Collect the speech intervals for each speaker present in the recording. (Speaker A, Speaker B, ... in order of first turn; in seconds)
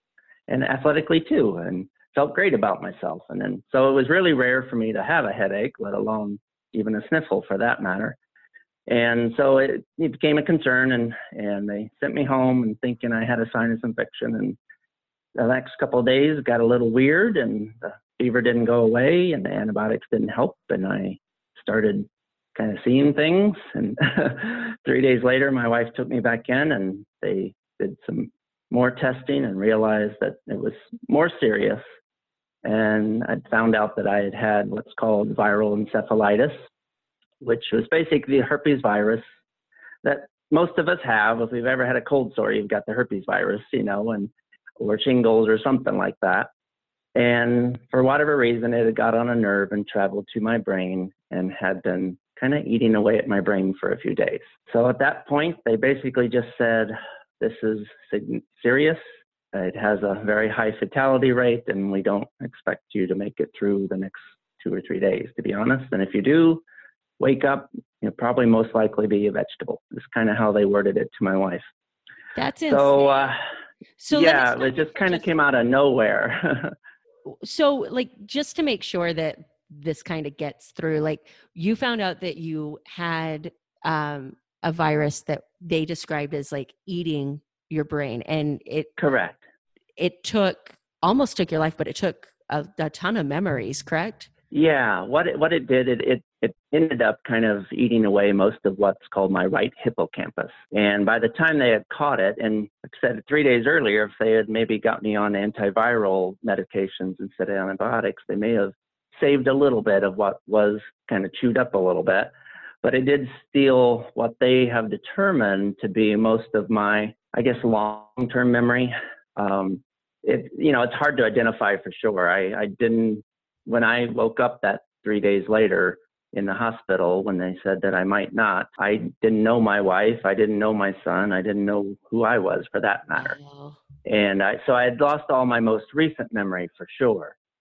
Speaker A: 0.5-8.2, 8.9-14.6, 15.4-31.8, 32.6-36.7, 37.4-39.2, 40.0-46.5, 47.1-59.0, 59.5-66.6, 67.2-71.7, 72.7-73.4, 74.1-76.8, 89.0-89.4, 94.5-112.3, 112.8-133.4, 134.1-137.4
Speaker B: 72.4-73.4, 74.0-75.3, 77.4-88.9, 90.0-94.3, 133.2-133.8